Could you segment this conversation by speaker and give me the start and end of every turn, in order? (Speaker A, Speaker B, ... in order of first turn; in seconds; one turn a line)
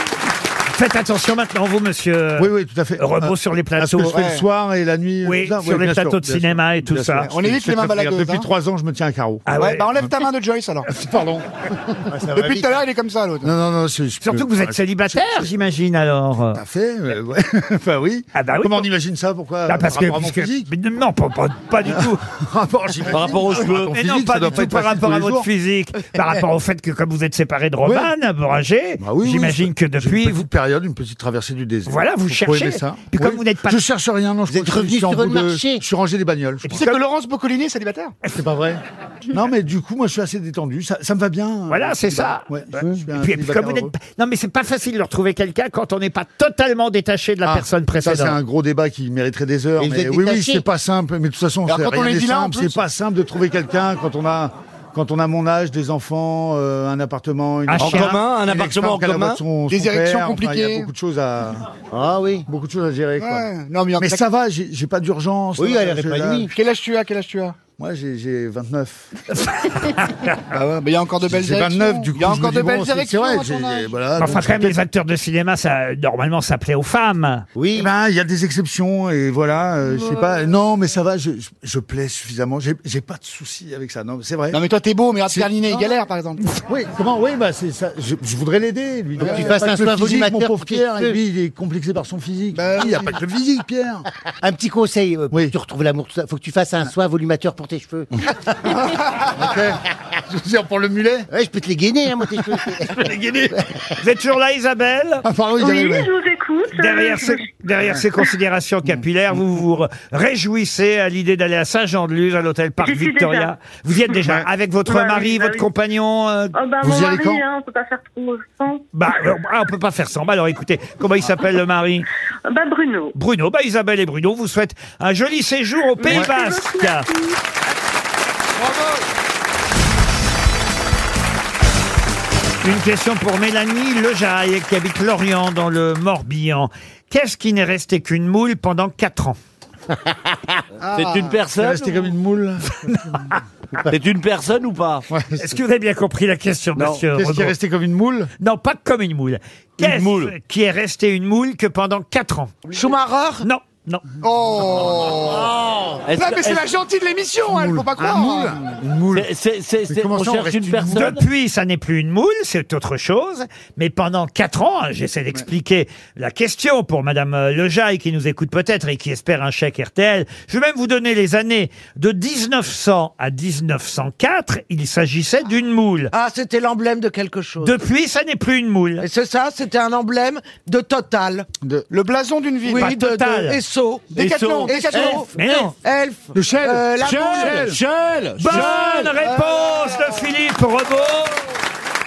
Speaker A: 0.7-4.2
Speaker B: 2.4-9.5
Speaker C: 4.1-4.4
Speaker A: 5.2-7.3
Speaker C: 7.3-8.5
Speaker A: 9.5-9.9
Speaker C: 9.6-10.9
Speaker B: 10.9-12.1
Speaker D: 12.1-12.8
Speaker C: 12.3-13.5
Speaker B: 13.4-15.5
Speaker A: 14.2-16.6
Speaker B: 16.5-20.7
Speaker A: 18.4-18.9
Speaker A: 19.7-22.2
Speaker B: 21.9-25.5
Speaker E: 23.1-23.9
Speaker A: 23.8-30.4
Speaker B: 27.8-28.1
Speaker B: 29.0-36.8
Speaker A: 31.9-33.8
Speaker D: 34.5-35.8
Speaker A: 36.6-37.0
Speaker C: 36.7-38.1
Speaker B: 38.3-43.9
Speaker A: 41.7-48.4
Speaker B: 47.4-61.7
Speaker D: 49.8-50.6
Speaker C: 51.7-52.8
Speaker A: 57.7-58.2
Speaker E: 57.8-59.4
Speaker C: 59.7-60.9
Speaker D: 61.9-62.5
Speaker B: 62.5-66.5
Speaker C: 63.2-64.2
Speaker D: 65.6-66.5
Speaker C: 66.5-67.6
Speaker B: 67.8-69.1
Speaker A: 69.6-70.3
Speaker C: 70.5-74.0
Speaker B: 71.3-74.8
Speaker A: 74.2-77.5
Speaker D: 77.5-77.9
Speaker B: 77.7-84.6
Speaker C: 84.5-86.5
Speaker B: 85.3-85.9
Speaker B: 86.6-94.1
Speaker C: 89.2-89.5
Speaker D: 89.2-91.2
Speaker C: 92.5-93.2
Speaker D: 94.4-98.1
Speaker B: 99.3-101.3
Speaker D: 101.3-103.0
Speaker B: 102.6-103.6
Speaker A: 104.0-105.2
Speaker B: 105.2-106.1
Speaker F: 105.6-107.5
Speaker A: 106.8-116.5
Speaker F: 112.8-113.5
Speaker F: 114.8-115.7
Speaker F: 116.5-118.8
Speaker B: 116.8-117.4
Speaker A: 118.9-122.1
Speaker F: 122.5-123.2
Speaker A: 123.2-127.1
Speaker F: 126.0-127.4
Speaker C: 128.6-129.0
Speaker A: 132.6-139.4
Speaker C: 140.8-141.4
Speaker E: 140.9-141.9
Speaker B: 141.6-143.3
Speaker A: 142.9-143.3
Speaker E: 143.9-145.1
Speaker B: 145.1-145.6
Speaker A: 145.4-147.5
Speaker E: 146.8-147.0
Speaker B: 147.1-148.3
Speaker A: 148.4-152.6
Speaker E: 149.8-150.3
Speaker G: 152.7-153.4
Speaker A: 153.4-154.0
Speaker C: 154.2-155.6
Speaker D: 155.3-156.0
Speaker E: 156.1-156.7
Speaker C: 156.2-158.6
Speaker B: 157.5-159.3
Speaker E: 159.1-161.2
Speaker B: 159.9-161.1
Speaker A: 160.9-176.1
Speaker G: 176.1-177.8
Speaker A: 177.6-179.1
Speaker G: 179.0-181.5
Speaker C: 181.9-182.9
Speaker G: 182.7-187.7
Speaker A: 182.8-183.6
Speaker C: 184.1-185.2
Speaker E: 184.2-185.0
Speaker A: 185.3-185.8
Speaker B: 186.3-187.8
Speaker E: 187.0-189.2
Speaker A: 188.4-191.4